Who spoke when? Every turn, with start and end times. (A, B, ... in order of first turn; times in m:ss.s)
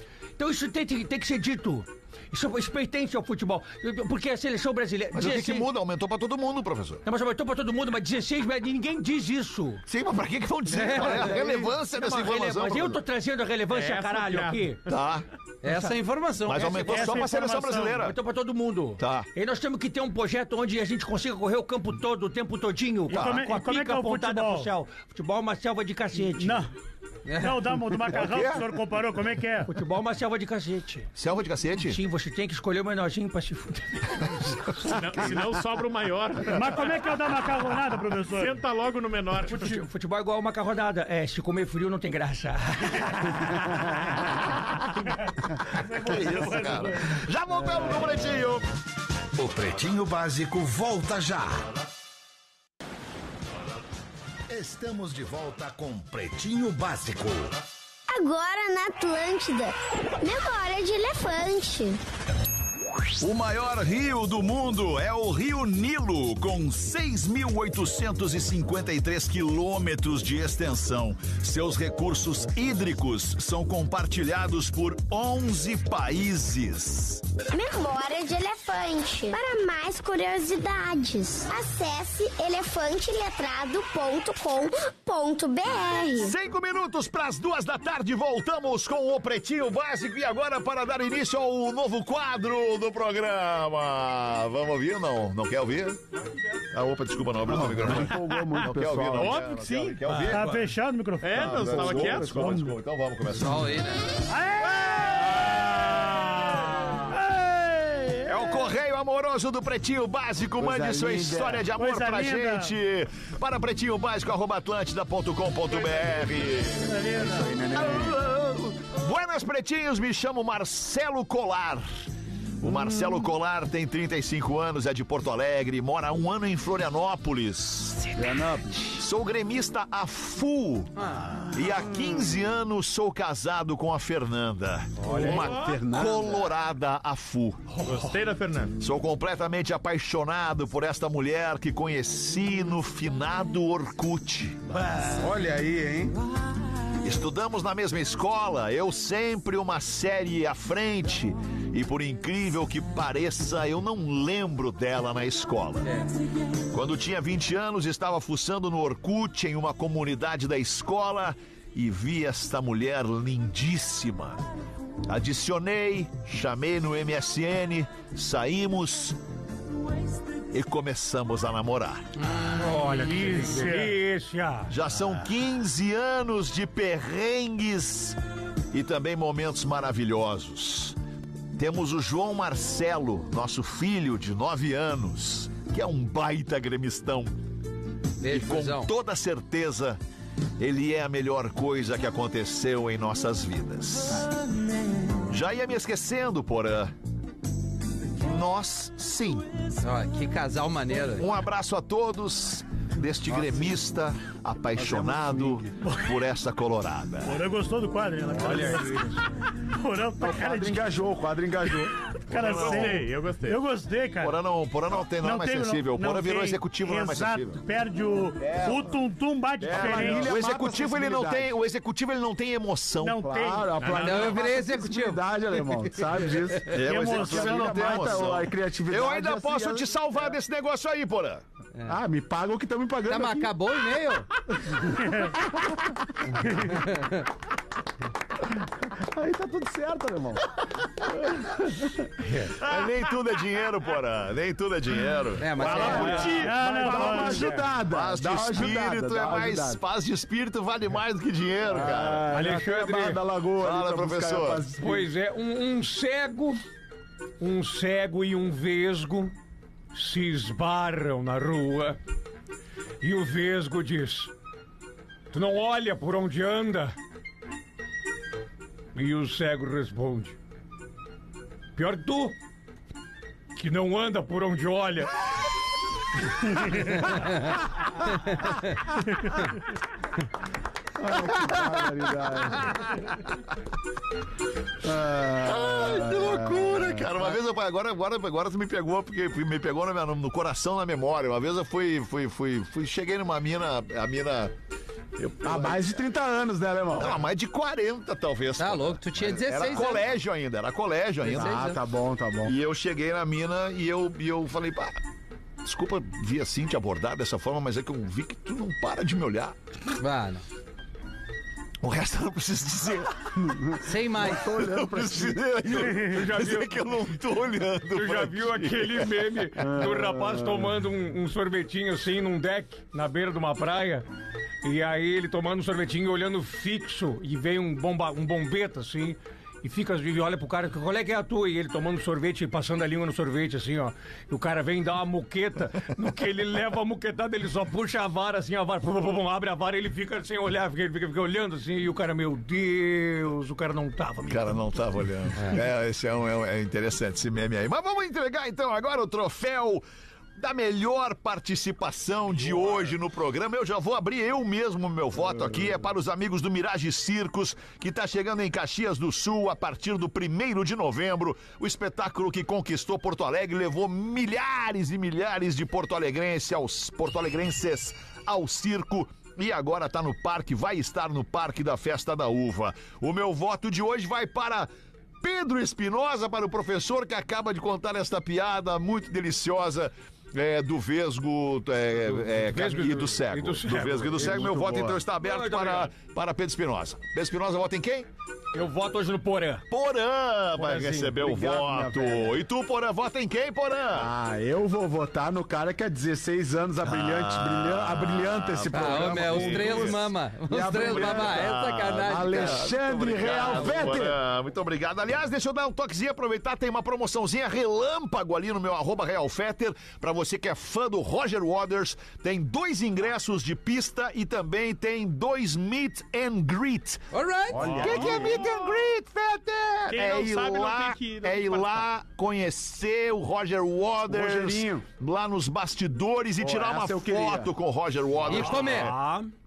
0:00.4-0:05.7 A
0:05.1-0:07.0 B
0:07.1-0:09.8 A
0:09.9-0:13.0 B
0:10.7-0:11.7 C
0:11.0-0:14.8 A
0:13.7-0:15.0 D
0:14.9-0:15.3 B
0:15.6-0:17.1 C
0:16.5-0:18.1 B
0:16.8-0:18.0 E
0:18.0-0:26.7 A
0:19.0-0:19.3 B
0:23.1-0:24.7 E
0:23.1-0:23.4 B
0:26.3-0:26.7 E
0:27.3-0:27.6 C
0:27.4-0:29.7 E
0:28.1-0:28.6 B
0:29.6-0:31.1 A
0:31.2-0:32.0 B
0:31.8-0:34.8 A
0:34.8-0:37.0 D
0:36.5-0:38.6 E
0:38.3-0:39.8 D
0:39.5-0:43.7 A
0:44.3-0:44.8 B
0:45.8-0:47.2 E
0:45.8-0:48.6 B
0:49.4-0:51.6 F
0:54.5-0:57.6 F
0:58.1-1:02.0 G
1:03.2-1:17.2 B
1:17.5-1:26.4 G
1:26.2-1:36.0 B
1:36.7-1:40.6 B
1:37.4-1:39.6 H
1:38.6-1:40.0 D
1:40.1-1:40.6 A
1:40.3-1:41.9 E
1:41.2-1:42.6 D
1:41.4-1:43.7 B
1:41.6-1:42.8 H
1:43.3-1:44.1 C
1:44.3-1:48.7 E
1:45.3-1:45.8 B
1:48.3-1:56.9 B
1:50.6-1:51.7 H
1:51.7-1:52.8 E
1:56.8-1:57.6 E
1:57.2-1:58.2 H
1:57.7-2:01.8 B
2:02.6-2:08.1 B
2:08.1-2:09.0 H
2:08.9-2:10.9 B
2:11.0-2:11.4 C
2:11.5-2:17.8 B
2:15.0-2:16.5 H
2:15.2-2:15.7 D
2:17.8-2:18.8 D
2:18.8-2:24.8 B
2:24.7-2:25.2 A
2:25.1-2:26.2 H
2:27.0-2:35.9 B
2:35.8-2:36.1 C
2:36.7-2:44.4 B
2:45.1-2:49.2 B
2:50.5-2:52.1 B
2:52.2-2:52.7 C
2:52.4-2:54.7 A
2:52.7-2:54.0 E
2:54.7-2:58.2 B
2:58.7-3:01.0 B
3:01.6-3:07.4 B
3:08.2-3:08.9 C
3:08.2-3:10.0 B
3:10.6-3:14.3 B
3:15.3-3:16.9 B
3:18.2-3:19.6 B
3:19.8-3:21.3 C
3:21.2-3:27.4 B
3:23.3-3:23.8 H
3:24.7-3:25.7 H
3:25.8-3:26.1 E
3:27.2-3:29.1 E
3:28.4-3:29.2 A
3:29.6-3:30.9 E
3:30.2-3:31.9 H
3:32.3-3:34.4 E
3:32.3-3:33.0 B
3:32.3-3:33.6 D
3:34.2-3:37.6 B
3:35.2-3:40.3 E
3:38.4-3:38.8 B
3:39.6-3:41.5 H
3:39.7-3:43.3 B
3:43.0-3:44.3 E
3:43.2-3:50.3 H
3:43.9-3:46.4 C
3:46.7-3:51.4 B
3:46.8-3:48.1 E
3:51.9-3:53.5 H
3:53.1-3:54.3 C
3:55.0-3:55.3 E
3:56.7-3:57.2 C
3:58.9-4:00.5 H
4:02.4-4:05.8 B
4:05.4-4:06.4 C
4:05.6-4:07.4 D
4:05.6-4:09.8 H
4:05.8-4:06.4 A
4:06.0-4:07.6 E
4:07.8-4:12.3 B
4:11.6-4:15.1 H
4:12.3-4:13.2 A
4:13.6-4:14.7 B
4:14.8-4:16.6 A
4:17.4-4:19.3 A
4:19.9-4:22.0 A
4:23.0-4:24.3 A
4:25.3-4:27.0 A
4:29.0-4:30.4 A
4:31.7-4:32.4 A
4:33.6-4:35.1 A
4:38.2-4:38.5 C
4:41.0-4:42.8 H
4:42.4-4:42.9 B
4:44.8-4:47.1 H
4:45.4-4:54.5 B
4:55.2-4:56.0 B
4:55.4-4:57.2 H
4:57.0-5:01.6 B
4:58.6-5:00.0 C
5:01.2-5:01.8 C
5:01.3-5:02.6 H
5:02.4-5:05.0 B
5:05.6-5:09.6 B
5:10.0-5:10.4 C
5:11.8-5:13.4 B
5:13.4-5:15.9 H
5:13.8-5:14.4 C
5:14.3-5:19.2 B
5:15.9-5:16.7 A
5:17.9-5:24.0 A
5:19.6-5:20.7 H
5:24.6-5:44.6 A
5:44.3-5:49.8 B
5:50.4-6:14.7 B
6:15.2-6:28.1 B
6:22.3-6:24.6 A
6:24.1-6:25.0 H
6:25.2-6:25.9 A
6:28.5-6:29.6 A
6:29.7-6:34.1 B
6:30.6-6:31.2 A
6:31.2-6:32.4 H
6:33.9-6:44.2 H
6:36.8-6:40.1 B
6:38.7-6:42.7 C
6:40.6-7:09.0 B
6:57.1-6:57.6 C
6:57.5-6:58.4 H
6:57.6-6:58.7 D
6:59.9-7:01.9 D
7:04.0-7:04.8 H
7:06.4-7:07.5 H
7:08.3-7:08.9 C
7:08.3-7:09.3 A